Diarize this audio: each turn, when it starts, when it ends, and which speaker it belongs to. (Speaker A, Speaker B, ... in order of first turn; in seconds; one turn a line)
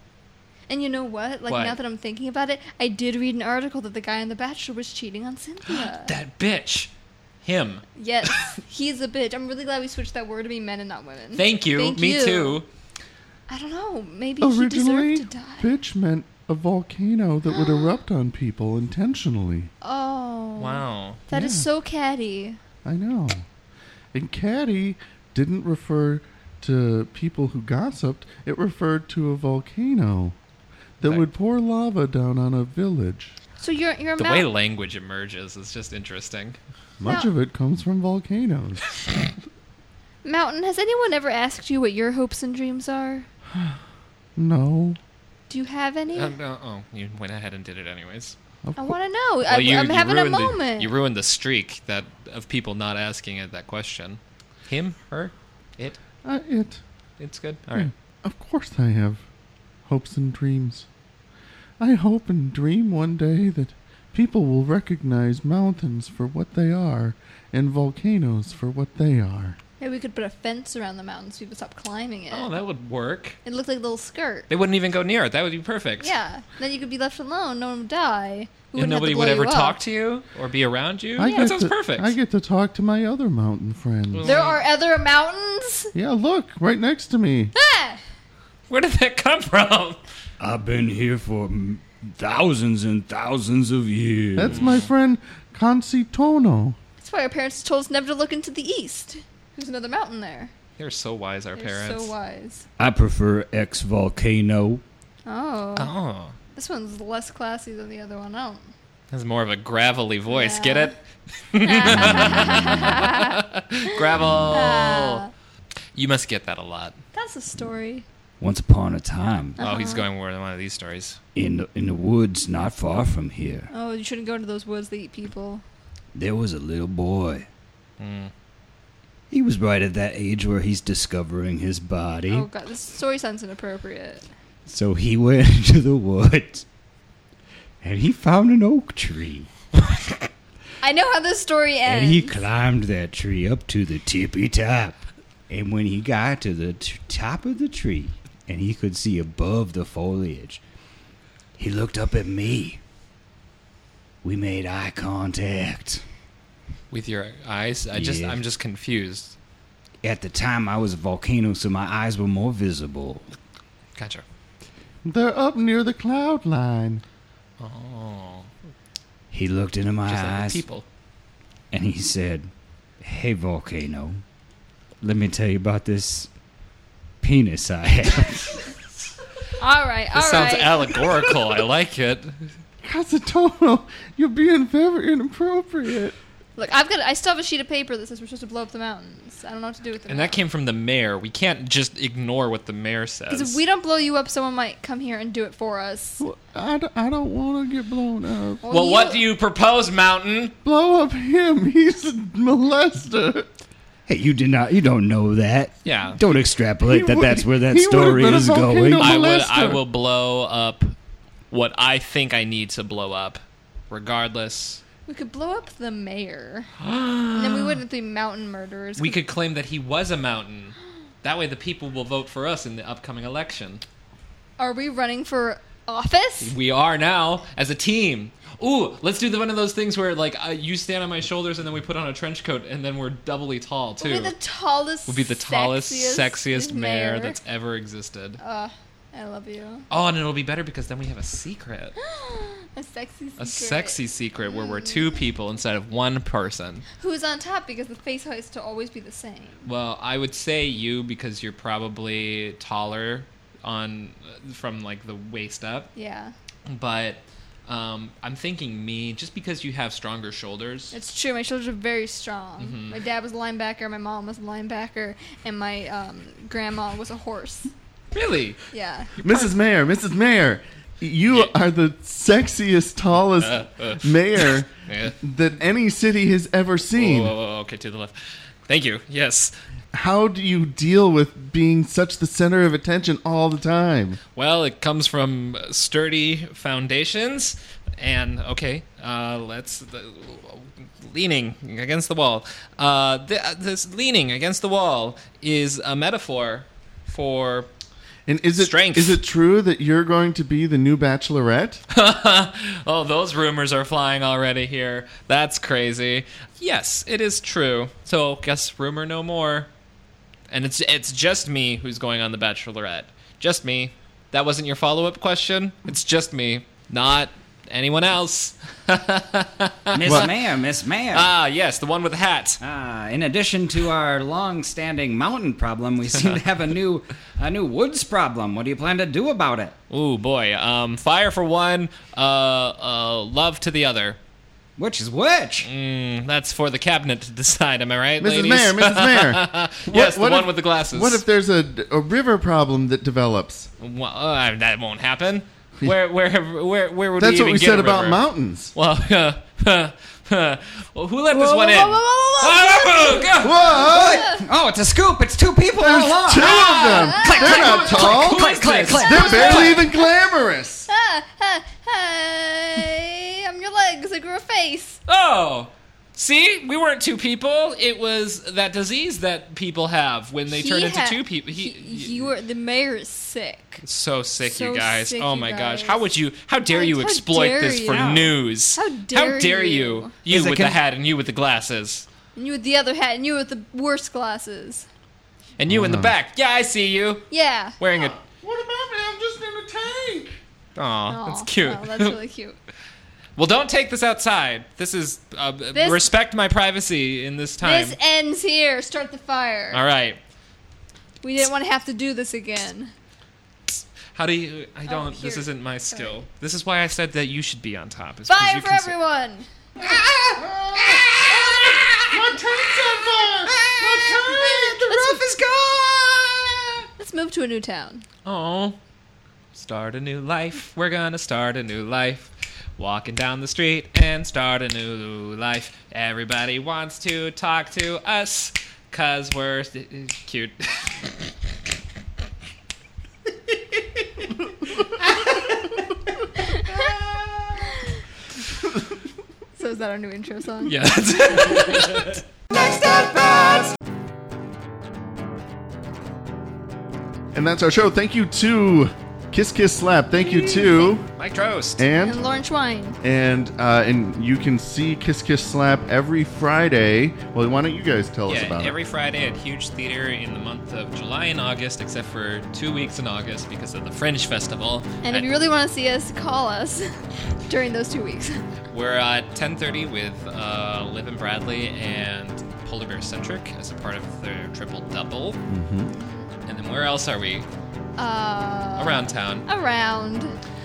Speaker A: 0.7-6.1
Speaker B: 1.5-1.8
Speaker B: 5.7-6.9
Speaker B: 7.4-8.5
Speaker A: 8.0-12.6
Speaker B: 11.3-12.7
Speaker A: 13.5-15.7
Speaker C: 14.4-19.7
Speaker A: 17.5-17.9
Speaker A: 19.8-22.6
Speaker B: 20.6-21.2
Speaker C: 21.3-21.6
Speaker C: 22.8-23.4
Speaker C: 24.1-30.4
Speaker C: 31.0-33.4
Speaker A: 33.6-34.5
Speaker B: 34.2-36.6
Speaker C: 37.0-38.9
Speaker A: 37.0-37.3
Speaker A: 40.2-43.3
Speaker C: 43.5-43.8
Speaker C: 44.4-45.0
Speaker A: 45.5-46.3
Speaker B: 46.1-48.4
Speaker C: 48.6-49.0
Speaker A: 48.8-50.9
Speaker B: 49.5-56.0
Speaker C: 56.2-56.8
Speaker B: 57.2-57.9
Speaker C: 57.7-59.2
Speaker C: 59.9-60.9
Speaker C: 61.8-69.6
Speaker A: 69.8-72.5
Speaker B: 72.3-73.4
Speaker A: 73.4-74.5
Speaker B: 74.5-76.1
Speaker A: 76.0-79.8
Speaker B: 78.7-82.1
Speaker C: 81.2-84.3
Speaker A: 81.2-81.5
Speaker B: 84.1-84.6
Speaker A: 84.2-85.9
Speaker C: 85.9-87.5
Speaker A: 87.5-88.0
Speaker B: 88.7-90.0
Speaker D: 90.4-94.6
Speaker C: 94.3-96.8
Speaker B: 94.5-94.9
Speaker A: 97.0-100.5
Speaker B: 100.8-102.1
Speaker A: 101.5-102.7
Speaker D: 102.8-104.8
Speaker A: 105.2-105.9
Speaker B: 105.8-106.3
Speaker A: 106.5-108.7
Speaker B: 109.1-115.2
Speaker A: 110.3-110.9
Speaker A: 111.6-115.3
Speaker B: 115.9-117.0
Speaker A: 117.1-118.0
Speaker D: 118.4-119.6
Speaker A: 119.6-120.1
Speaker B: 119.6-121.2
Speaker D: 121.3-123.7
Speaker A: 123.7-125.6
Speaker D: 126.1-127.5
Speaker B: 128.0-128.3
Speaker D: 129.3-132.5
Speaker A: 132.3-134.3
Speaker D: 134.7-136.6
Speaker D: 137.8-139.5
Speaker A: 140.8-142.4
Speaker D: 141.8-145.0
Speaker D: 145.5-150.6
Speaker D: 151.6-152.8
Speaker D: 154.2-156.0
Speaker B: 156.9-159.3
Speaker D: 157.9-158.4
Speaker D: 160.0-163.3
Speaker B: 163.9-164.2
Speaker C: 165.0-167.0
Speaker B: 167.6-168.5
Speaker D: 169.3-170.6
Speaker B: 170.1-170.8
Speaker D: 171.7-172.5
Speaker D: 173.0-174.2
Speaker D: 175.0-176.3
Speaker D: 177.2-178.6
Speaker A: 179.6-181.0
Speaker B: 180.1-182.5
Speaker C: 182.8-186.2
Speaker A: 186.6-190.4
Speaker B: 190.1-193.6
Speaker A: 193.3-196.2
Speaker C: 196.2-198.6
Speaker A: 198.6-199.2
Speaker B: 198.7-200.5
Speaker C: 200.6-203.5
Speaker D: 204.1-209.2
Speaker B: 205.8-206.2
Speaker C: 206.8-209.8
Speaker B: 209.0-210.9
Speaker B: 211.5-214.8
Speaker A: 215.1-216.7
Speaker B: 216.8-217.8
Speaker A: 217.3-219.2
Speaker B: 219.0-223.8
Speaker A: 224.6-226.5
Speaker B: 226.4-234.3
Speaker A: 234.0-237.4
Speaker B: 235.1-238.4
Speaker A: 238.4-239.8
Speaker B: 239.9-242.0
Speaker A: 242.0-245.2
Speaker B: 243.4-246.8
Speaker A: 247.0-249.7
Speaker B: 249.6-255.9
Speaker A: 255.9-256.3
Speaker B: 256.7-260.9
Speaker A: 260.9-267.7
Speaker B: 262.6-263.0
Speaker B: 268.1-268.6
Speaker A: 268.7-269.1
Speaker B: 269.2-269.5
Speaker C: 269.2-277.3
Speaker B: 273.4-275.2
Speaker B: 276.9-279.5
Speaker C: 279.9-284.2
Speaker B: 284.3-297.7
Speaker C: 298.3-301.8
Speaker B: 298.6-299.2
Speaker B: 301.9-309.7
Speaker B: 310.5-320.3
Speaker D: 319.9-321.3
Speaker C: 320.0-320.3
Speaker B: 321.1-322.6
Speaker D: 322.6-329.7
Speaker B: 329.9-334.2
Speaker D: 334.8-335.7
Speaker B: 335.6-341.2
Speaker C: 338.2-343.7
Speaker B: 343.8-353.7
Speaker C: 347.2-348.7
Speaker A: 351.3-354.5
Speaker C: 353.4-354.2
Speaker D: 353.6-359.8
Speaker C: 355.8-358.5
Speaker A: 356.3-358.0
Speaker B: 357.4-359.6
Speaker A: 358.9-360.1
Speaker C: 359.0-360.9
Speaker A: 360.9-365.0
Speaker B: 365.1-372.3
Speaker A: 370.5-373.8
Speaker B: 373.8-382.1
Speaker A: 374.4-376.1
Speaker A: 376.7-380.1
Speaker D: 380.3-380.8
Speaker A: 382.4-384.9
Speaker B: 385.6-387.2
Speaker C: 385.7-386.1
Speaker A: 387.3-387.8
Speaker B: 387.8-388.1
Speaker C: 388.1-390.4
Speaker B: 390.8-392.2
Speaker A: 391.1-392.6
Speaker B: 393.4-398.0
Speaker A: 395.7-396.1
Speaker A: 397.6-399.8
Speaker B: 399.7-400.2
Speaker A: 401.2-402.9
Speaker B: 404.1-408.9
Speaker A: 404.9-406.1
Speaker A: 408.3-409.5
Speaker C: 409.8-415.2
Speaker D: 409.8-412.1
Speaker D: 413.4-416.5
Speaker A: 414.9-415.2
Speaker A: 417.0-418.0
Speaker B: 418.2-418.8
Speaker B: 419.5-430.9
Speaker A: 436.4-436.9
Speaker D: 436.6-437.5
Speaker A: 439.6-441.6
Speaker B: 440.6-442.2
Speaker D: 442.5-443.7
Speaker A: 442.5-443.2
Speaker C: 447.3-451.1
Speaker B: 450.1-451.8
Speaker C: 451.8-452.2
Speaker A: 452.0-453.0
Speaker C: 453.0-458.8
Speaker B: 458.3-465.3
Speaker A: 465.0-466.9
Speaker A: 467.5-468.4
Speaker B: 468.7-475.4
Speaker C: 475.5-475.9
Speaker A: 475.9-476.3
Speaker B: 476.4-477.5
Speaker A: 478.0-480.3
Speaker B: 478.8-479.4